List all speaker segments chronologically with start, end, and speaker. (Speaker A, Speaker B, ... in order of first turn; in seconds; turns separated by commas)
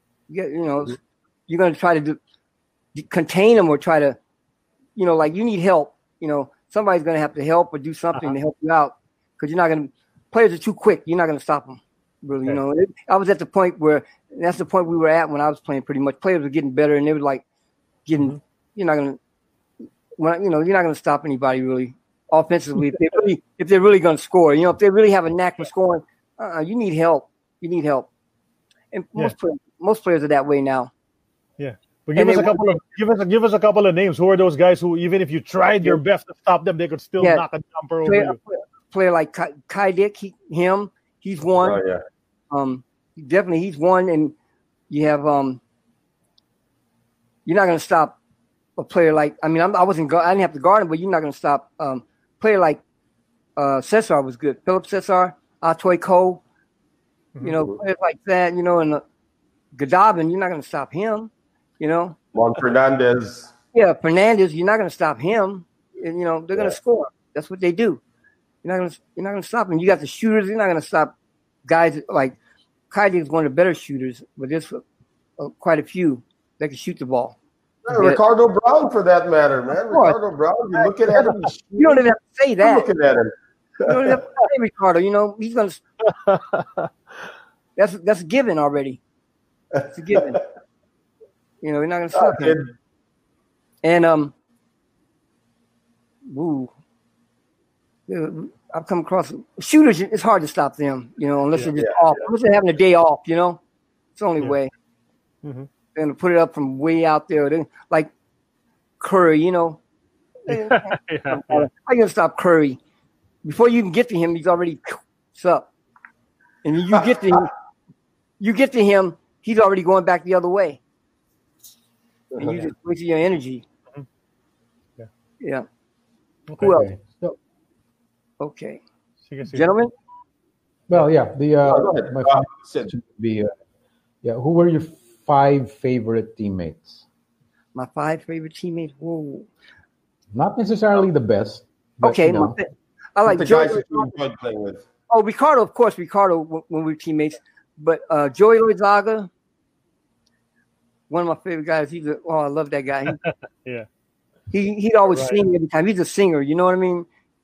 Speaker A: 0.3-2.2, Speaker A: 2.9-4.2, Speaker A: 5.0-17.4, Speaker A: 18.1-19.2, Speaker A: 20.2-28.1, Speaker A: 28.9-30.9, Speaker B: 31.6-38.4, Speaker A: 32.1-32.8, Speaker A: 38.0-41.8, Speaker C: 41.6-42.0, Speaker A: 42.5-44.3, Speaker A: 44.9-45.6, Speaker A: 47.5-48.1, Speaker A: 48.8-52.8, Speaker A: 53.6-56.4, Speaker A: 57.4-59.0, Speaker A: 59.7-62.2, Speaker C: 62.3-63.5, Speaker A: 63.7-68.0, Speaker A: 68.6-71.1, Speaker A: 71.7-72.4, Speaker A: 72.9-74.8, Speaker A: 75.4-77.3, Speaker C: 77.9-82.0, Speaker A: 79.9-80.2, Speaker A: 81.8-82.9, Speaker C: 82.6-83.3, Speaker A: 83.8-85.8, Speaker B: 86.0-86.9, Speaker A: 87.8-89.0, Speaker C: 89.8-90.2, Speaker A: 89.9-90.4, Speaker A: 91.6-92.6, Speaker C: 92.1-92.7, Speaker A: 93.8-94.3, Speaker A: 96.3-96.7, Speaker A: 98.1-103.6, Speaker A: 104.2-104.7, Speaker B: 105.4-105.7, Speaker A: 105.9-108.1, Speaker A: 109.0-109.8, Speaker A: 110.5-112.8, Speaker B: 110.5-111.7, Speaker A: 113.4-115.7, Speaker A: 116.6-117.5, Speaker A: 118.4-120.8, Speaker C: 122.3-122.6, Speaker A: 122.4-123.6, Speaker A: 125.4-125.7, Speaker B: 126.5-127.0, Speaker A: 126.6-126.9, Speaker D: 126.6-127.4, Speaker A: 128.4-128.8, Speaker B: 129.3-129.7, Speaker A: 129.5-129.9, Speaker D: 130.9-133.5, Speaker C: 131.7-132.9, Speaker D: 134.2-137.0, Speaker A: 137.7-139.5, Speaker D: 140.3-142.6, Speaker A: 142.0-144.1, Speaker C: 143.2-144.8, Speaker A: 145.1-149.3, Speaker A: 151.1-153.2, Speaker B: 153.1-153.9, Speaker A: 154.5-157.1, Speaker B: 155.1-155.4